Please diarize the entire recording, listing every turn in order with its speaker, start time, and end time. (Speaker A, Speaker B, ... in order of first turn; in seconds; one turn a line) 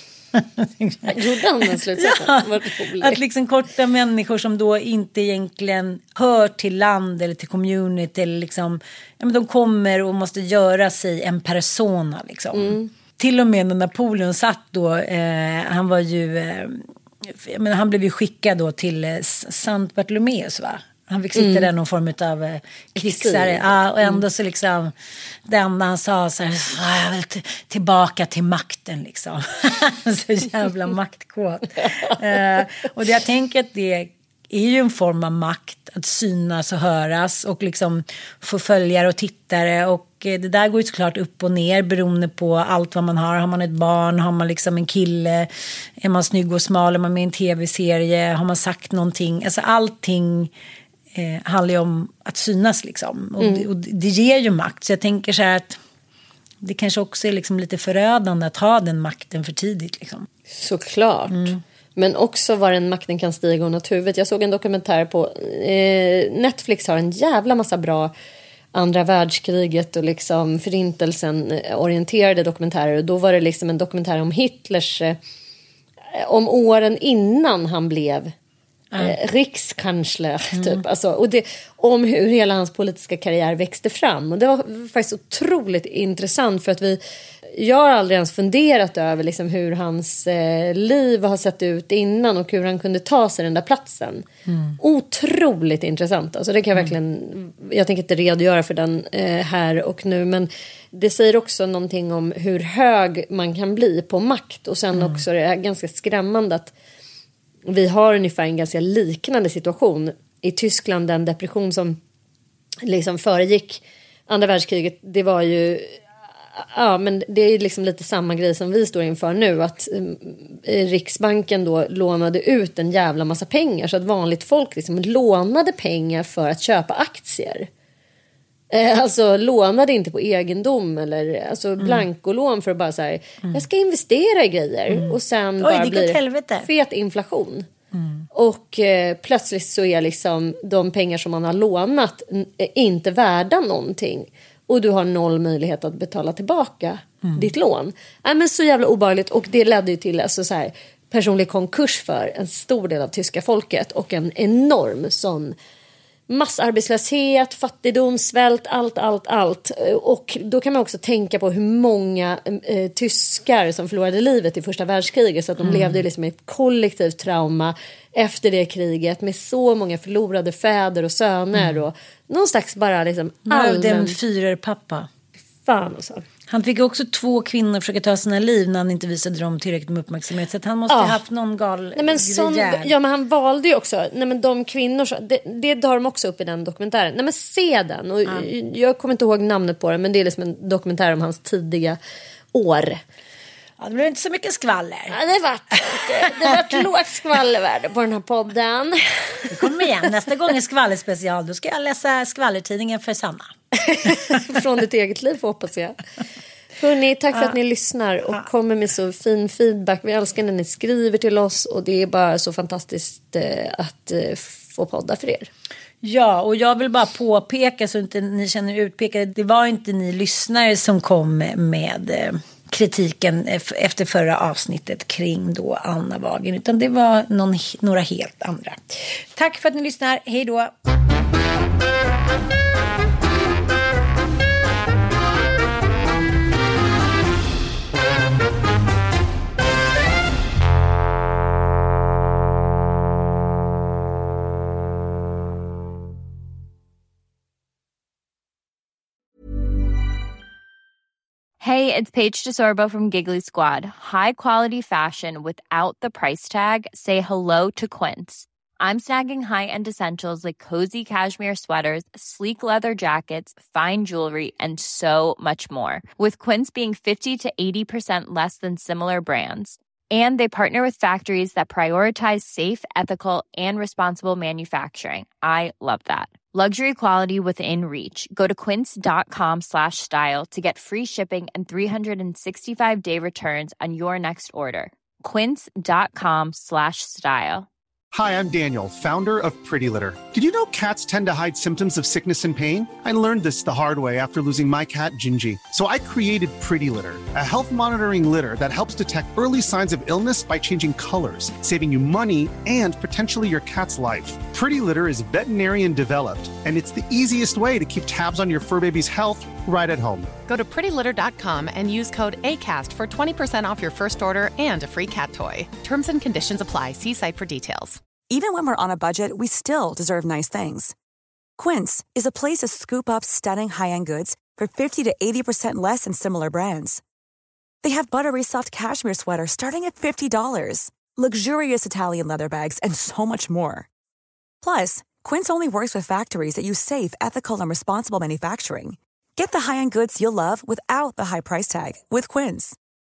Speaker A: 0.3-24.9
Speaker B: 1.1-3.2
Speaker B: 12.5-12.9
Speaker B: 21.4-21.7
Speaker B: 22.9-24.2
Speaker A: 25.5-50.5
Speaker A: 51.1-55.8
Speaker B: 53.4-53.6
Speaker A: 56.6-60.3
Speaker B: 60.5-68.1
Speaker A: 61.3-61.6
Speaker B: 68.7-75.2
Speaker B: 76.1-78.3
Speaker B: 79.0-87.0
Speaker A: 80.5-80.8
Speaker B: 87.5-94.2
Speaker B: 94.8-106.7
Speaker A: 104.9-105.2
Speaker B: 107.7-112.0
Speaker B: 112.8-116.0
Speaker B: 116.5-127.7
Speaker B: 128.7-137.7
Speaker A: 131.8-132.1
Speaker A: 134.9-136.7
Speaker A: 137.9-138.2
Speaker B: 138.3-155.6
Speaker B: 156.3-174.2
Speaker A: 165.6-166.0
Speaker A: 171.5-171.8
Speaker A: 173.5-175.1
Speaker B: 175.6-176.2
Speaker A: 176.5-182.9
Speaker B: 180.9-181.2
Speaker B: 181.9-192.0
Speaker B: 192.5-193.0
Speaker A: 193.8-195.2
Speaker B: 195.1-199.8
Speaker A: 195.9-196.6
Speaker A: 199.5-203.5
Speaker B: 203.7-206.0
Speaker A: 204.0-204.4
Speaker B: 206.8-215.5
Speaker A: 216.0-230.7
Speaker C: 251.6-287.7
Speaker D: 288.1-310.3
Speaker E: 310.5-318.0
Speaker F: 318.3-320.9
Speaker F: 321.6-327.0
Speaker F: 327.8-333.9
Speaker F: 334.6-342.8